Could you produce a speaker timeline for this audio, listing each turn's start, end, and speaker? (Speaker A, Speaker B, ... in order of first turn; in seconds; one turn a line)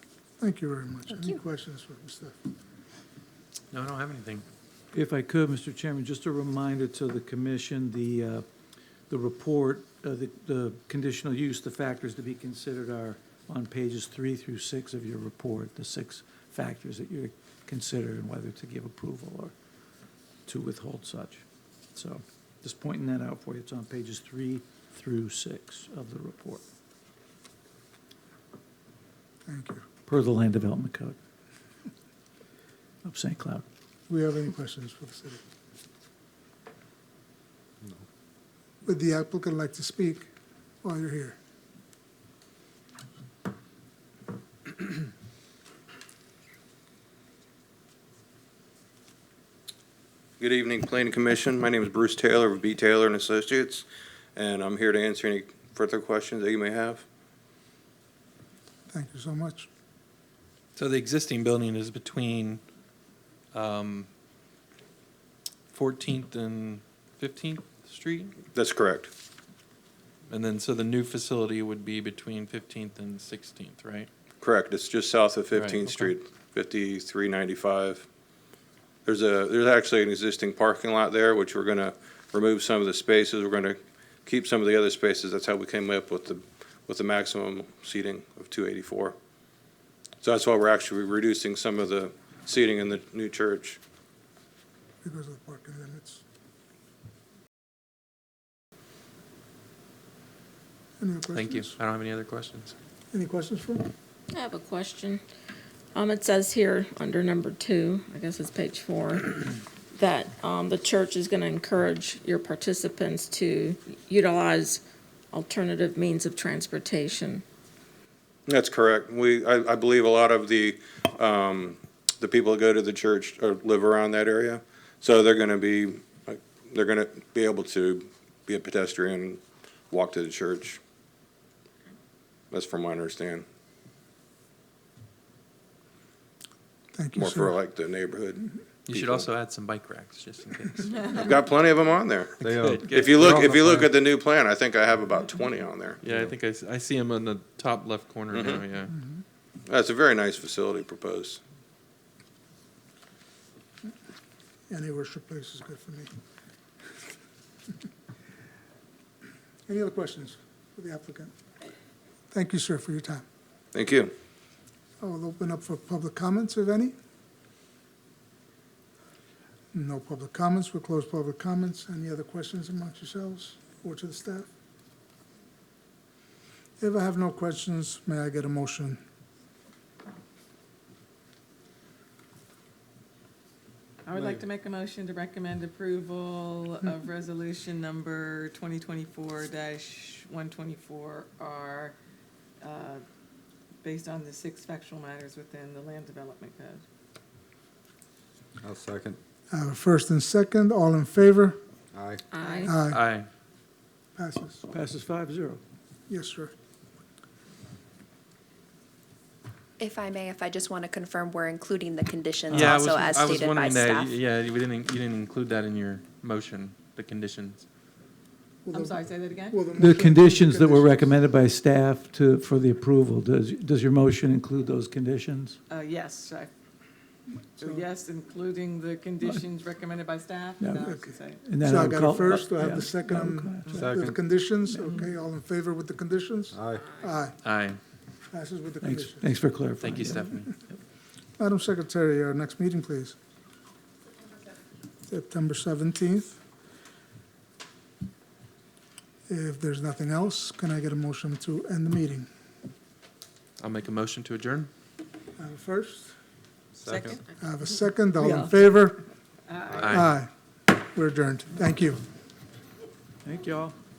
Speaker A: 0.4-2.4
Speaker B: 3.7-4.5
Speaker C: 4.9-8.4
Speaker C: 9.1-19.5
Speaker C: 20.5-21.4
Speaker C: 21.9-26.6
Speaker A: 29.5-29.8
Speaker C: 30.1-31.2
Speaker C: 33.0-33.6
Speaker A: 34.1-35.4
Speaker A: 38.9-40.3
Speaker A: 40.8-41.4
Speaker D: 50.4-53.9
Speaker D: 54.4-57.0
Speaker A: 58.9-59.7
Speaker B: 60.8-62.6
Speaker B: 63.5-64.1
Speaker B: 65.7-68.4
Speaker D: 68.5-69.1
Speaker B: 70.3-74.1
Speaker D: 74.4-78.1
Speaker B: 75.5-76.1
Speaker D: 79.0-89.2
Speaker D: 90.2-93.8
Speaker A: 95.0-96.2
Speaker A: 101.0-101.8
Speaker B: 101.3-102.7
Speaker A: 103.1-103.9
Speaker E: 104.4-105.2
Speaker F: 104.5-105.0
Speaker E: 106.0-109.3
Speaker F: 106.0-108.9
Speaker E: 110.0-114.8
Speaker F: 110.0-114.8
Speaker F: 115.3-117.4
Speaker E: 115.4-117.4
Speaker D: 118.5-130.8
Speaker D: 132.5-133.4
Speaker A: 136.9-137.6
Speaker D: 137.2-139.3
Speaker B: 138.9-141.1
Speaker D: 141.1-146.0
Speaker G: 142.4-143.9
Speaker B: 142.6-143.6
Speaker B: 146.0-148.9
Speaker D: 148.3-148.6
Speaker D: 149.7-151.4
Speaker A: 154.7-156.1
Speaker A: 159.7-161.3
Speaker A: 162.3-163.2
Speaker D: 163.7-164.1
Speaker A: 165.0-166.9
Speaker A: 169.7-174.5
Speaker A: 176.8-179.0
Speaker F: 184.1-192.0
Speaker G: 184.1-184.4
Speaker F: 192.6-193.0
Speaker F: 193.8-196.8
Speaker G: 198.6-199.2
Speaker A: 199.5-201.6
Speaker G: 201.9-202.2
Speaker F: 202.3-202.8
Speaker A: 202.7-203.0
Speaker B: 202.8-203.3
Speaker A: 204.2-204.6
Speaker C: 204.7-205.6
Speaker A: 206.1-206.5
Speaker H: 209.8-214.2
Speaker B: 212.5-217.7
Speaker A: 218.7-221.1
Speaker F: 218.7-219.6
Speaker C: 219.7-225.6
Speaker F: 225.7-226.5
Speaker F: 227.6-231.4
Speaker C: 230.6-233.8
Speaker A: 230.8-237.4
Speaker F: 233.7-233.9
Speaker G: 233.7-234.2
Speaker C: 234.6-234.9
Speaker G: 236.5-236.9
Speaker B: 237.4-237.8
Speaker A: 238.3-239.3
Speaker C: 238.8-240.7
Speaker B: 239.8-240.5
Speaker A: 241.4-243.2
Speaker A: 245.1-246.4
Speaker A: 249.3-252.3
Speaker B: 253.6-254.7
Speaker A: 255.4-256.1
Speaker F: 256.8-257.2
Speaker G: 256.8-257.2
Speaker A: 257.4-259.0
Speaker F: 259.5-259.9
Speaker B: 259.8-260.1
Speaker A: 259.9-262.0
Speaker C: 263.2-263.8